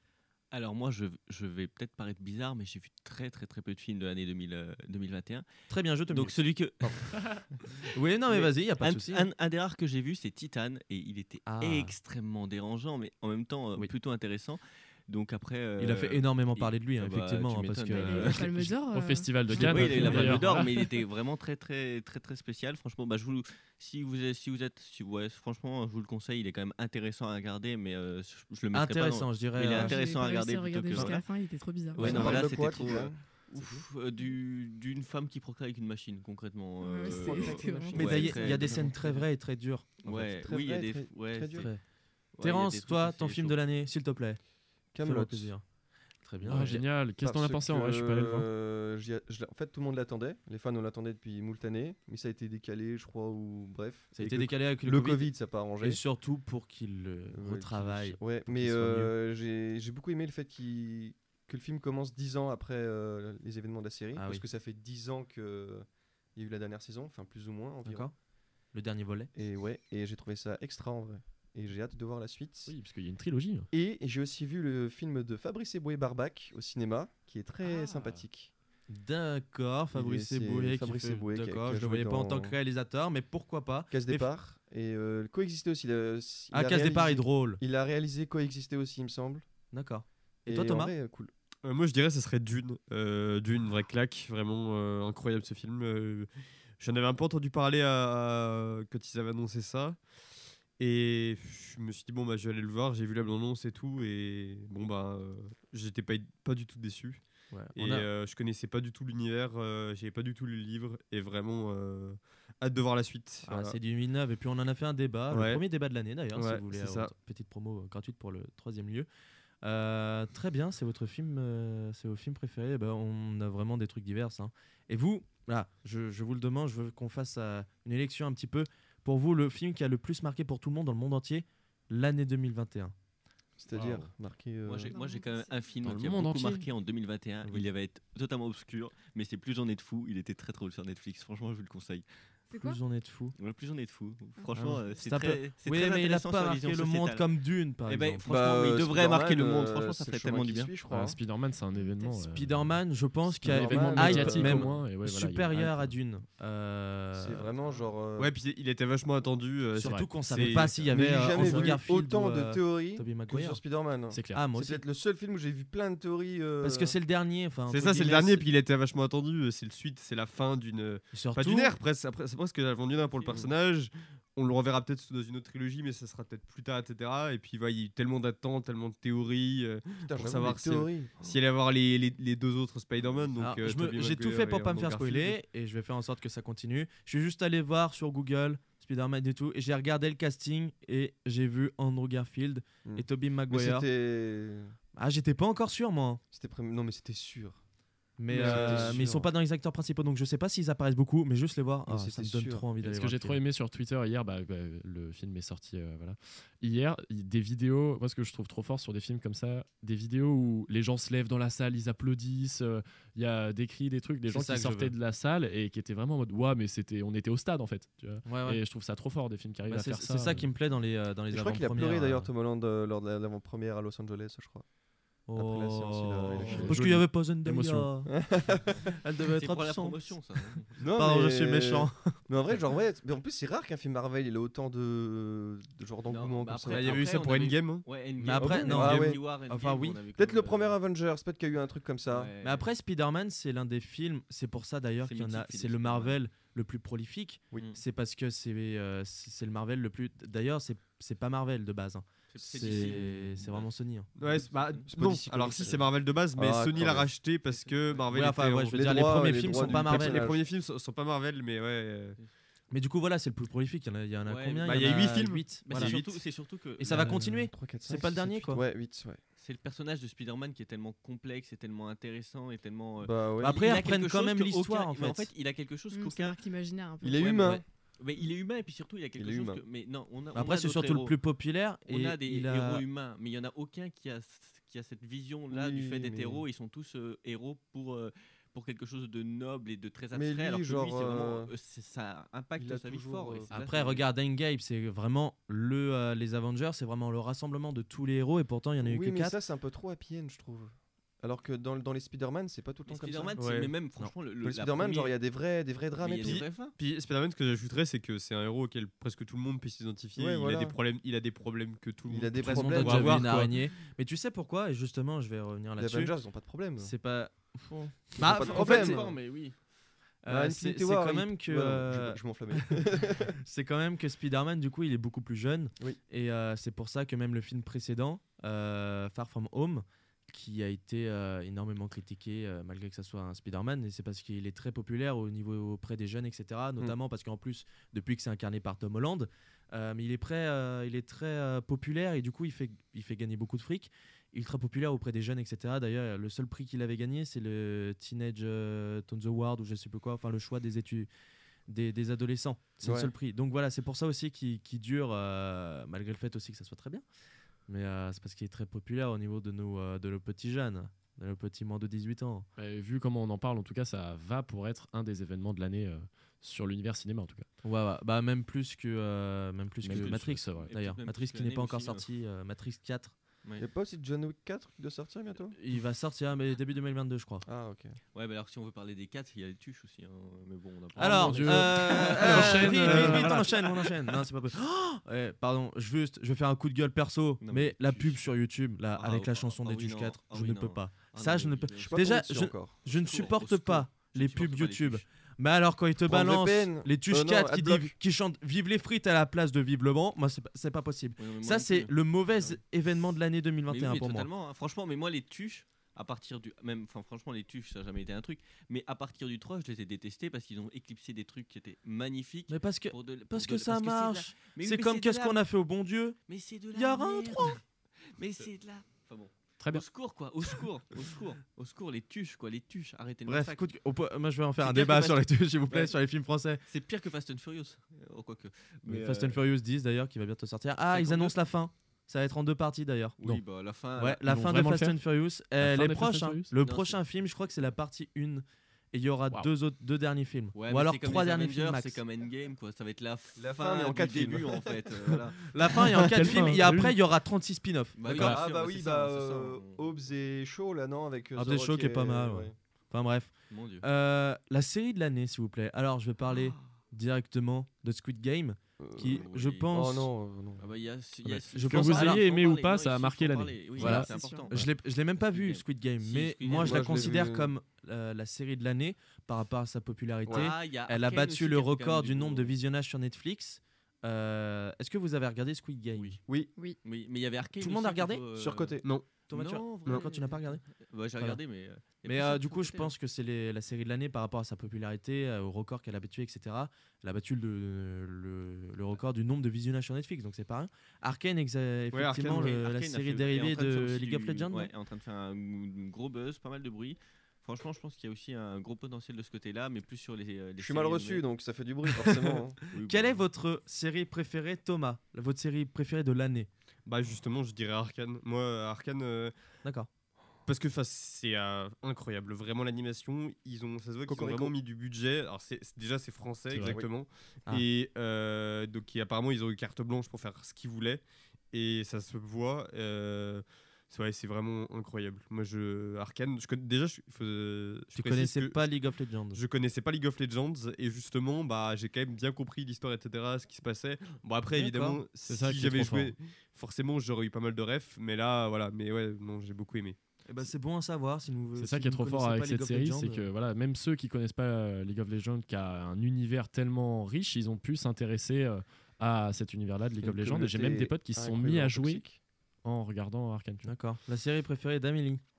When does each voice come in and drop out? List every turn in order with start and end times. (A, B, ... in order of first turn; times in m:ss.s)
0:00.5-0:05.4 A
0:05.7-0:06.4 B
0:06.1-0:18.4 A
0:07.8-0:09.3 B
0:11.4-0:11.9 B
0:15.8-0:18.7 B
0:17.9-0:20.1 C
0:18.9-0:20.7 D
0:19.5-0:31.2 A
0:19.6-0:20.4 B
0:28.7-0:30.0 B
0:29.7-0:32.1 C
0:30.9-0:31.2 B
0:31.9-0:32.5 B
0:32.0-0:39.2 A
0:32.0-0:33.6 E
0:36.8-0:38.5 C
0:37.0-0:38.9 E
0:37.9-0:40.0 B
0:40.0-0:41.7 E
0:40.0-0:41.7 A
0:41.5-0:41.8 B
0:42.4-0:43.6 A
0:42.4-0:44.4 B
0:44.9-0:45.5 E
0:45.0-0:45.6 B
0:46.2-0:46.8 B
0:46.5-0:48.5 D
0:46.5-0:56.0 E
0:54.1-0:59.1 B
0:57.3-1:08.1 E
1:04.1-1:04.4 B
1:07.8-1:08.1 B
1:08.7-1:09.3 B
1:09.3-1:12.7 E
1:12.7-1:13.7 D
1:13.7-1:18.5 E
1:17.6-1:18.1 C
1:18.9-1:24.3 B
1:19.9-1:22.6 E
1:23.9-1:29.4 E
1:26.5-1:27.6 B
1:29.7-1:30.9 B
1:30.5-1:31.3 E
1:31.6-1:40.0 F
1:40.8-1:47.2 F
1:47.5-1:48.1 B
1:47.7-1:53.8 F
1:53.4-1:59.1 B
1:55.3-1:55.6 F
1:56.3-1:57.1 F
1:59.6-2:12.9 B
2:13.6-2:14.9 E
2:13.7-2:14.1 D
2:14.6-2:22.0 A
2:14.9-2:15.6 C
2:15.8-2:16.6 D
2:22.5-2:22.8 C
2:22.6-2:23.3 B
2:23.4-2:27.2 A
2:24.4-2:24.9 C
2:24.9-2:28.2 B
2:27.8-2:30.7 A
2:28.2-2:31.2 E
2:30.9-2:32.8 D
2:31.7-2:32.2 C
2:32.3-2:37.5 B
2:33.4-2:34.8 E
2:33.4-2:35.9 D
2:37.1-2:38.3 E
2:38.2-2:40.8 F
2:39.8-2:43.6 B
2:39.8-2:40.9 D
2:40.9-2:46.9 E
2:41.4-2:41.7 F
2:44.1-2:44.5 D
2:44.3-2:44.8 B
2:46.6-2:48.4 B
2:47.7-3:05.4 F
2:51.1-2:51.7 B
3:00.0-3:01.4 E
3:03.4-3:13.8 B
3:12.8-3:14.8 E
3:14.9-3:16.2 B
3:16.3-3:17.6 E
3:18.2-3:23.4 B
3:18.3-3:19.3 E
3:18.5-3:18.8 F
3:21.8-3:22.7 E
3:22.8-3:40.5 D
3:34.3-3:34.9 B
3:38.2-3:38.6 B
3:39.7-3:42.3 B
3:41.3-3:44.6 E
3:45.3-3:50.2 B
3:45.3-3:46.8 E
3:46.4-3:47.9 D
3:48.1-3:48.9 E
3:49.3-3:50.7 A
3:50.8-3:57.1 E
3:50.8-3:52.2 B
3:56.1-4:00.8 A
3:56.7-3:57.0 B
3:56.8-3:57.8 F
3:58.2-4:00.0 B
3:58.4-3:59.2 E
4:00.2-4:02.3 E
4:02.1-4:02.7 A
4:02.4-4:14.1 B
4:05.0-4:06.2 A
4:12.3-4:13.7 A
4:12.6-4:13.1 E
4:14.2-4:18.8 F
4:14.4-4:14.9 A
4:14.9-4:17.1 E
4:17.5-4:18.1 A
4:18.1-4:20.3 B
4:18.6-4:20.4 E
4:19.5-4:22.2 F
4:22.7-4:26.2 B
4:24.2-4:24.9 A
4:24.6-4:26.0 F
4:25.6-4:27.1 A
4:26.8-4:28.6 B
4:26.9-4:29.2 E
4:29.4-4:36.4 A
4:33.0-4:33.5 E
4:33.4-4:35.3 B
4:35.9-4:37.4 C
4:37.0-4:37.6 E
4:37.2-4:41.2 A
4:39.2-4:39.6 E
4:40.3-4:42.8 B
4:41.8-4:54.1 A
4:45.5-4:46.4 E
4:50.1-4:51.5 E
4:52.6-4:53.5 E
4:53.5-4:59.4 B
4:58.8-5:03.4 E
5:02.8-5:05.1 A
5:03.4-5:03.7 F
5:04.4-5:06.4 E
5:06.0-5:06.7 A
5:06.2-5:13.5 F
5:10.1-5:10.8 E
5:12.1-5:13.5 E
5:12.4-5:16.1 B
5:15.8-5:16.9 E
5:16.8-5:19.1 B
5:18.1-5:19.2 E
5:18.2-5:19.6 A
5:20.2-5:51.1 B
5:20.3-5:23.4 E
5:51.7-5:57.0 B
5:52.8-5:53.1 E
5:57.7-6:02.5 B
6:02.6-6:07.4 D
6:07.6-6:13.1 B
6:09.8-6:10.7 D
6:09.9-6:12.0 A
6:13.6-6:15.5 E
6:15.6-6:17.4 B
6:17.4-6:18.0 E
6:18.1-6:23.9 A
6:21.0-6:23.6 D
6:21.0-6:44.3 B
6:22.2-6:23.2 E
6:27.4-6:28.2 A
6:29.0-6:32.1 A
6:31.8-6:32.7 E
6:32.9-6:35.0 A
6:36.0-6:37.9 E
6:41.2-6:42.6 A
6:43.7-6:55.4 A
6:52.5-6:56.2 B
6:56.3-7:03.6 A
6:56.7-6:57.6 B
6:59.6-6:59.8 D
7:03.2-7:06.6 B
7:04.6-7:05.9 A
7:06.7-7:09.4 A
7:08.8-7:13.2 B
7:10.9-7:11.4 A
7:13.2-7:14.2 A
7:14.0-7:22.0 B
7:14.2-7:15.0 D
7:15.6-7:16.5 D
7:16.6-7:17.0 A
7:20.5-7:25.5 A
7:23.4-7:25.2 E
7:25.4-7:28.4 B
7:26.0-7:27.0 D
7:28.0-7:29.8 A
7:28.1-7:32.5 E
7:31.3-7:40.1 B
7:33.5-7:33.9 A
7:36.3-7:36.6 A
7:38.8-7:40.6 E
7:39.0-7:39.7 A
7:40.6-7:44.6 A
7:41.3-7:44.7 D
7:41.5-7:42.2 B
7:43.8-7:56.2 B
7:44.0-7:44.5 C
7:45.2-7:47.2 A
7:46.5-7:47.5 E
7:50.3-7:52.5 A
7:55.9-7:56.2 A
7:56.8-8:02.9 A
7:57.6-7:58.2 B
7:58.3-7:58.8 E
7:59.3-8:00.6 B
8:02.0-8:14.7 B
8:11.9-8:12.5 F
8:12.2-8:21.2 A
8:20.6-8:22.6 E
8:22.7-8:23.2 A
8:22.8-8:26.5 B
8:26.8-8:29.3 F
8:29.6-8:29.9 B
8:30.4-8:48.6 F
8:34.1-8:34.5 E
8:36.5-8:36.8 D
8:36.6-8:36.9 E
8:47.9-8:49.4 B
8:49.3-9:00.0 F
8:54.5-8:55.0 B
8:55.3-8:56.1 D
9:00.3-9:03.3 B
9:01.6-9:12.0 D
9:10.0-9:12.2 E
9:12.6-9:13.7 D
9:13.6-9:15.2 B